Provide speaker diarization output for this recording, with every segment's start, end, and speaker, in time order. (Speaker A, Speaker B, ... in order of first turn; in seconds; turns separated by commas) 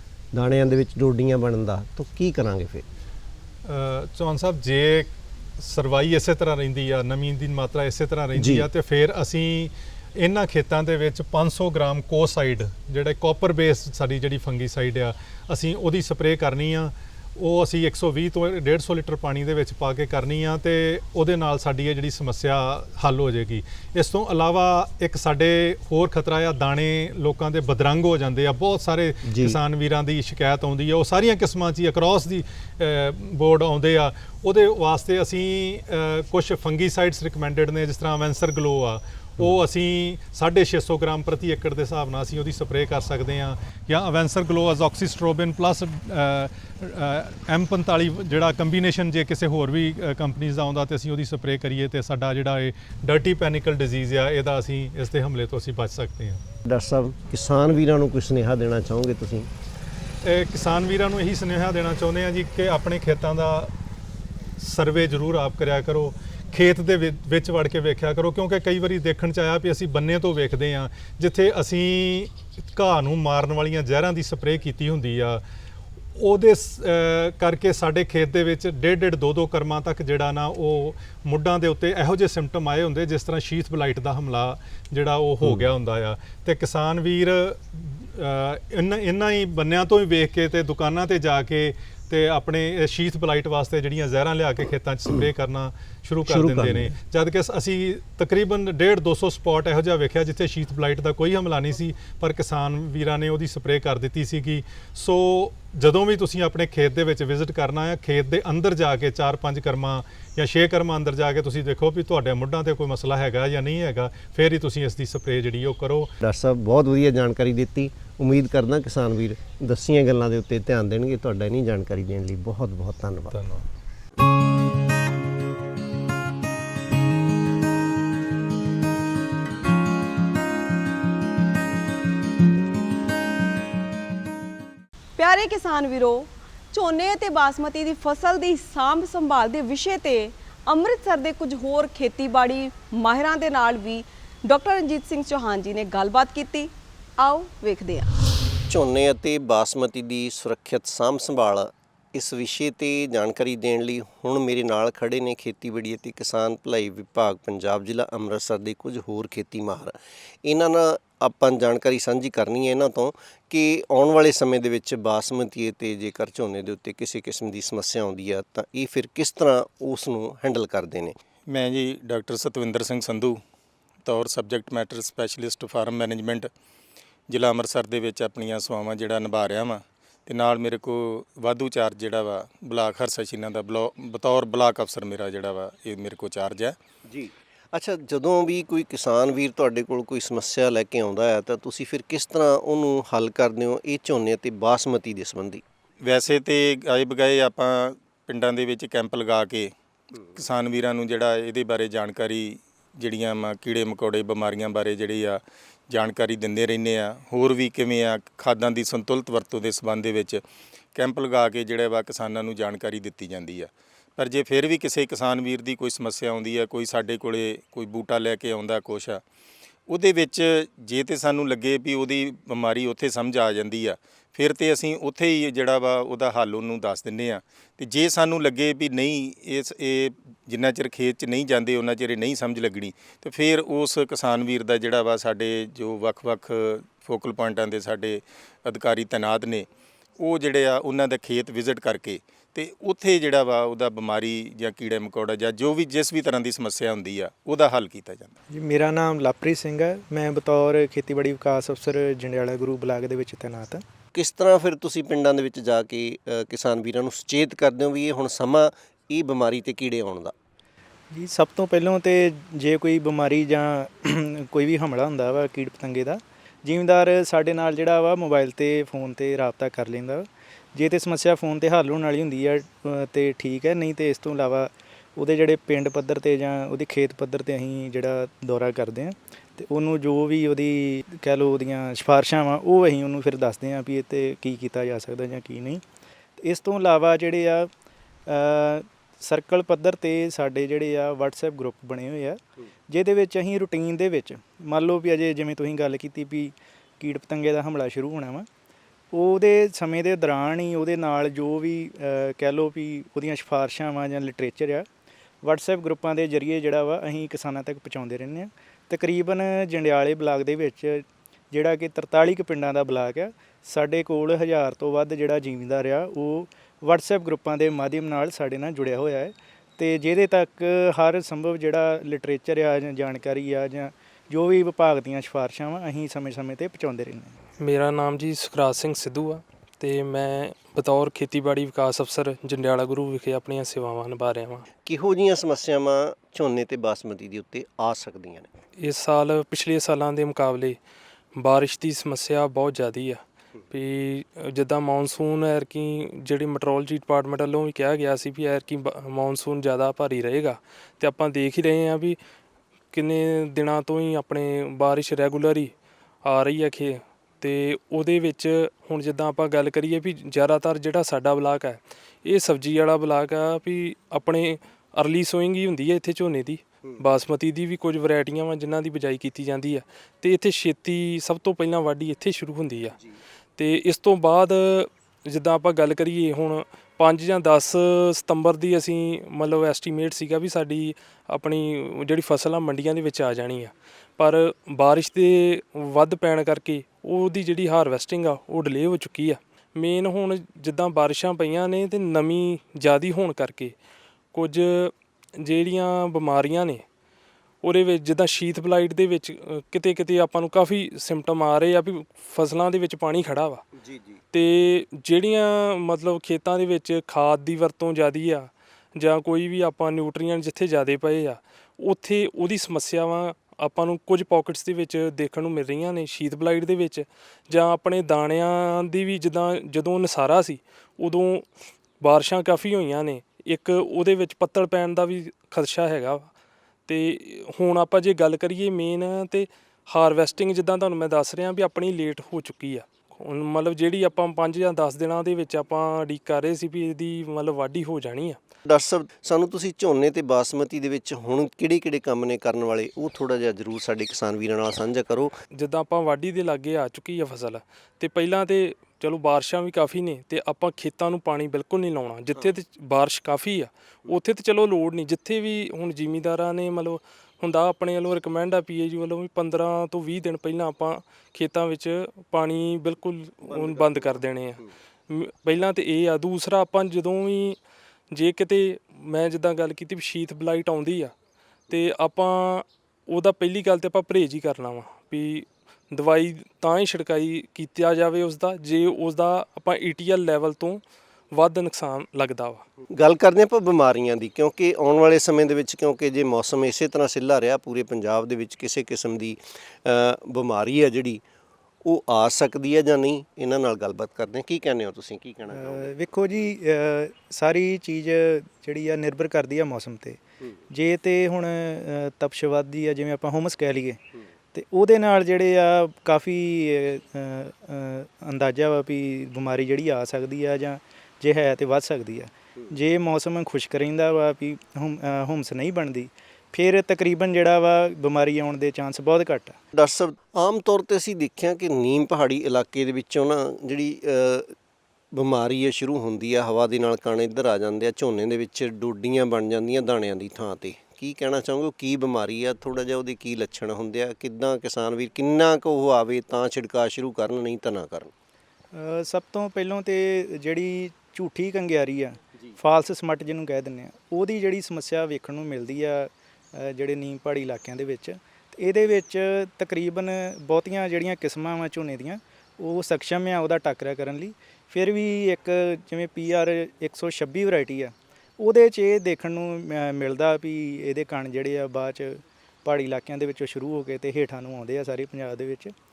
Speaker A: 0.3-2.8, Speaker B: 3.6-56.4, Speaker A: 8.4-8.7, Speaker A: 29.2-29.6, Speaker A: 56.6-59.5, Speaker B: 60.2-63.7, Speaker B: 64.6-75.4, Speaker B: 76.2-116.1, Speaker A: 85.4-85.7, Speaker A: 96.2-96.9, Speaker A: 116.2-123.4, Speaker B: 123.3-123.6, Speaker C: 135.2-148.1, Speaker A: 148.7-171.2, Speaker D: 171.5-173.4, Speaker D: 174.0-176.5, Speaker D: 177.3-186.8, Speaker A: 187.1-195.6, Speaker D: 196.0-199.7, Speaker D: 200.3-210.4, Speaker D: 210.9-219.2, Speaker D: 219.9-239.7, Speaker D: 240.2-248.3, Speaker E: 248.5-253.8, Speaker A: 254.1-260.3, Speaker E: 261.1-285.8, Speaker E: 286.4-287.7, Speaker E: 288.3-298.5, Speaker E: 299.1-304.9, Speaker E: 305.4-327.4, Speaker F: 327.6-334.7, Speaker A: 334.8-338.5, Speaker F: 338.8-340.8, Speaker F: 341.4-352.2, Speaker F: 352.9-355.7, Speaker F: 356.2-373.0, Speaker F: 373.6-393.7, Speaker F: 394.3-396.8, Speaker F: 397.6-403.6, Speaker A: 403.8-404.2, Speaker F: 404.3-421.5, Speaker F: 422.0-426.3, Speaker F: 426.9-438.4, Speaker A: 438.6-445.3, Speaker F: 445.5-467.6, Speaker A: 463.5-464.0, Speaker F: 468.1-471.1, Speaker F: 471.7-482.6, Speaker A: 482.9-491.2, Speaker A: 491.8-495.9, Speaker E: 495.5-504.0, Speaker E: 504.5-519.5, Speaker A: 519.7-524.5, Speaker A: 525.1-538.1, Speaker E: 538.7-565.7